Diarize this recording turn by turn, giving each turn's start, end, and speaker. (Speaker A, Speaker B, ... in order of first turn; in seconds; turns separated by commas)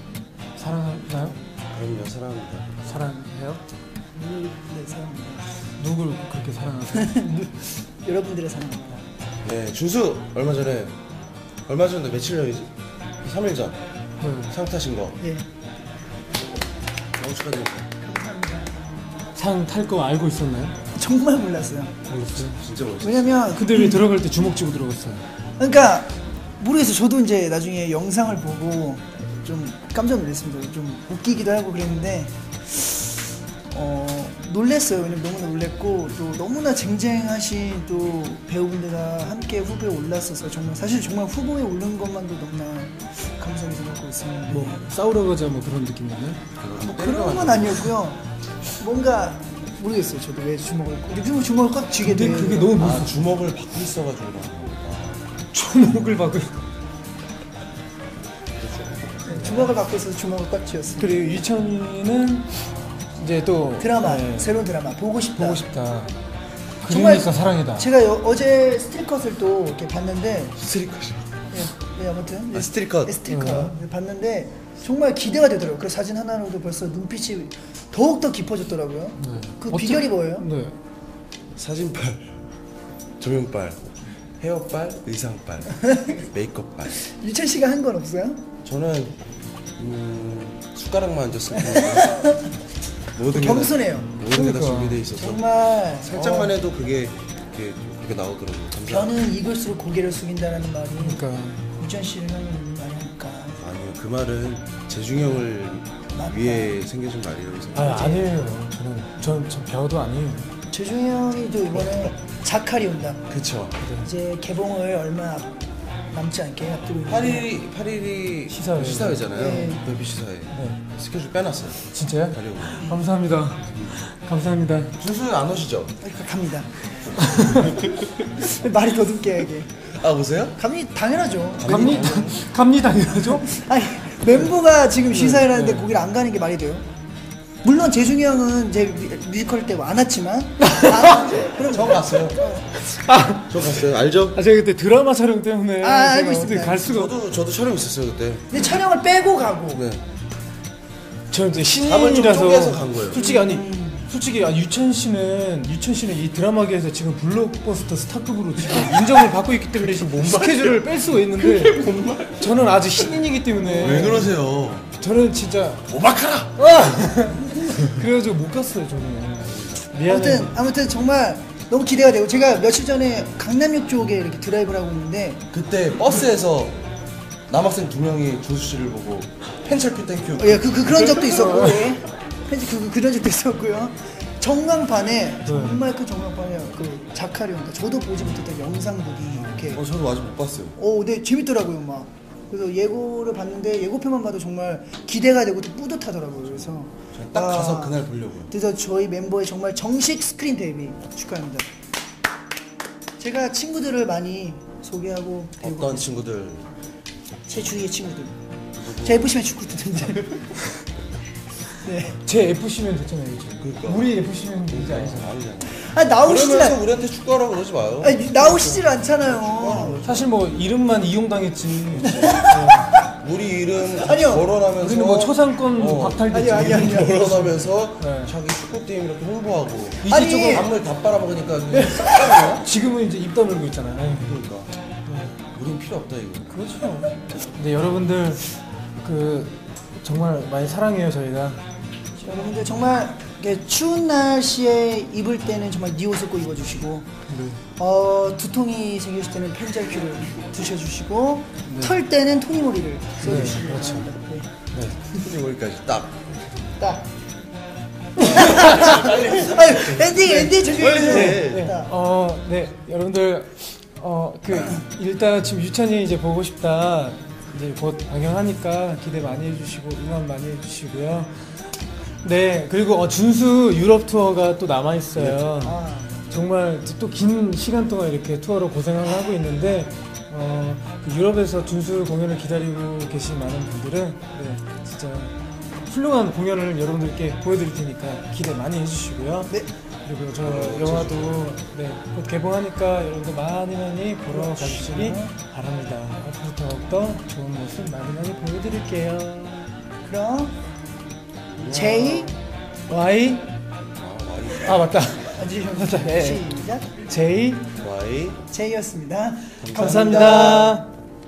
Speaker A: 0.6-1.4, Speaker B: 1.7-2.7, Speaker A: 2.8-3.6, Speaker C: 4.2-5.5, Speaker A: 5.8-7.3, Speaker C: 6.9-9.1, Speaker B: 9.4-11.0, Speaker B: 11.7-13.8, Speaker A: 14.2-14.6, Speaker B: 14.5-15.2, Speaker C: 15.2-15.5, Speaker B: 17.2-17.9, Speaker C: 18.0-18.7, Speaker A: 19.4-20.8, Speaker C: 20.9-21.9, Speaker A: 22.1-22.6, Speaker B: 22.5-23.4, Speaker C: 23.0-24.0, Speaker A: 23.5-25.2, Speaker C: 25.6-44.8, Speaker A: 44.5-46.4, Speaker B: 46.6-47.9, Speaker C: 46.8-48.2, Speaker C: 48.8-52.8, Speaker A: 52.0-53.2, Speaker B: 52.7-55.3, Speaker A: 55.5-56.6, Speaker B: 58.6-59.7, Speaker C: 59.3-61.4, Speaker A: 61.0-62.6, Speaker A: 63.1-64.6, Speaker C: 63.8-65.7, Speaker A: 65.4-66.1, Speaker A: 66.8-67.9, Speaker C: 66.9-70.6, Speaker B: 70.6-71.3, Speaker C: 71.5-80.5, Speaker B: 72.5-73.2, Speaker A: 73.3-73.8, Speaker A: 79.2-80.8, Speaker B: 81.6-82.4, Speaker B: 83.2-87.0, Speaker C: 85.8-86.2, Speaker C: 87.0-88.4, Speaker B: 88.6-89.2, Speaker B: 89.8-92.3, Speaker C: 91.6-92.5, Speaker B: 93.2-99.2, Speaker C: 93.3-94.2, Speaker A: 94.3-95.0, Speaker C: 95.1-96.6, Speaker C: 98.9-101.2, Speaker A: 101.0-101.6, Speaker C: 101.8-103.6, Speaker B: 103.6-108.1, Speaker C: 106.1-106.8, Speaker A: 107.7-110.5, Speaker C: 107.8-108.2, Speaker C: 110.7-113.2, Speaker B: 113.3-113.8, Speaker A: 113.8-114.1, Speaker C: 114.0-115.6, Speaker C: 116.1-117.5, Speaker B: 117.1-123.0, Speaker A: 118.5-119.3, Speaker C: 119.3-119.8, Speaker A: 120.5-120.8, Speaker A: 121.9-125.0, Speaker B: 125.0-126.0, Speaker C: 126.0-126.8, Speaker A: 127.2-127.9, Speaker C: 128.4-129.7, Speaker B: 129.9-130.6, Speaker C: 130.6-131.8, Speaker B: 131.6-132.4, Speaker A: 131.6-133.6, Speaker C: 133.4-136.9, Speaker A: 134.2-135.9, Speaker C: 137.6-142.7, Speaker A: 140.6-141.3, Speaker B: 141.6-142.6, Speaker A: 142.8-143.7, Speaker B: 143.5-144.4, Speaker A: 144.3-147.2, Speaker C: 145.8-146.9, Speaker B: 146.8-148.7, Speaker C: 148.5-149.8, Speaker B: 149.7-150.0, Speaker A: 151.3-164.3, Speaker B: 151.7-153.2, Speaker C: 153.2-154.1, Speaker B: 160.1-160.7, Speaker B: 161.4-162.5, Speaker C: 163.6-164.2, Speaker B: 163.7-164.9, Speaker A: 165.0-165.9, Speaker B: 165.9-166.6, Speaker A: 166.6-170.5, Speaker B: 169.4-169.9, Speaker C: 170.1-175.4, Speaker B: 175.5-176.8, Speaker B: 177.5-181.3, Speaker C: 180.4-189.8, Speaker A: 181.2-182.0, Speaker A: 185.5-185.8, Speaker A: 189.3-189.8, Speaker B: 189.7-190.8, Speaker C: 190.8-201.7, Speaker B: 197.1-198.5, Speaker C: 203.2-206.2, Speaker B: 205.6-206.7, Speaker C: 207.5-208.3, Speaker B: 208.8-209.3, Speaker C: 209.0-210.3, Speaker C: 211.8-212.2, Speaker A: 212.2-215.3, Speaker B: 213.6-214.2, Speaker B: 214.7-220.5, Speaker C: 215.7-216.8, Speaker C: 218.0-220.0, Speaker A: 220.0-222.9, Speaker C: 222.0-223.1, Speaker B: 222.1-222.4, Speaker B: 223.2-232.7, Speaker C: 223.8-224.5, Speaker A: 224.8-228.3, Speaker C: 226.3-227.2, Speaker A: 230.0-230.7, Speaker C: 230.1-230.6, Speaker C: 231.7-232.5, Speaker A: 232.4-234.3, Speaker B: 234.2-234.7, Speaker A: 235.1-235.4, Speaker B: 235.5-236.6, Speaker A: 236.5-241.6, Speaker C: 242.2-247.1, Speaker A: 247.3-247.6, Speaker C: 247.8-254.5, Speaker A: 251.7-251.9, Speaker A: 253.2-254.1, Speaker A: 254.7-255.0, Speaker B: 255.1-256.6, Speaker C: 256.8-257.1, Speaker C: 258.3-261.9, Speaker A: 258.3-258.6, Speaker B: 258.5-259.7, Speaker A: 260.0-260.5, Speaker B: 260.5-261.7, Speaker A: 261.0-271.5, Speaker A: 272.2-299.7, Speaker B: 275.2-275.4, Speaker C: 275.6-276.3, Speaker B: 290.4-291.5, Speaker C: 294.3-295.3, Speaker C: 300.0-300.6, Speaker B: 301.5-302.1, Speaker C: 301.7-302.3, Speaker A: 301.8-302.3, Speaker A: 302.9-303.5, Speaker B: 303.9-305.0, Speaker A: 304.6-307.7, Speaker C: 305.3-306.9, Speaker B: 307.8-308.4, Speaker C: 308.5-310.7, Speaker B: 309.6-310.6, Speaker A: 309.7-310.9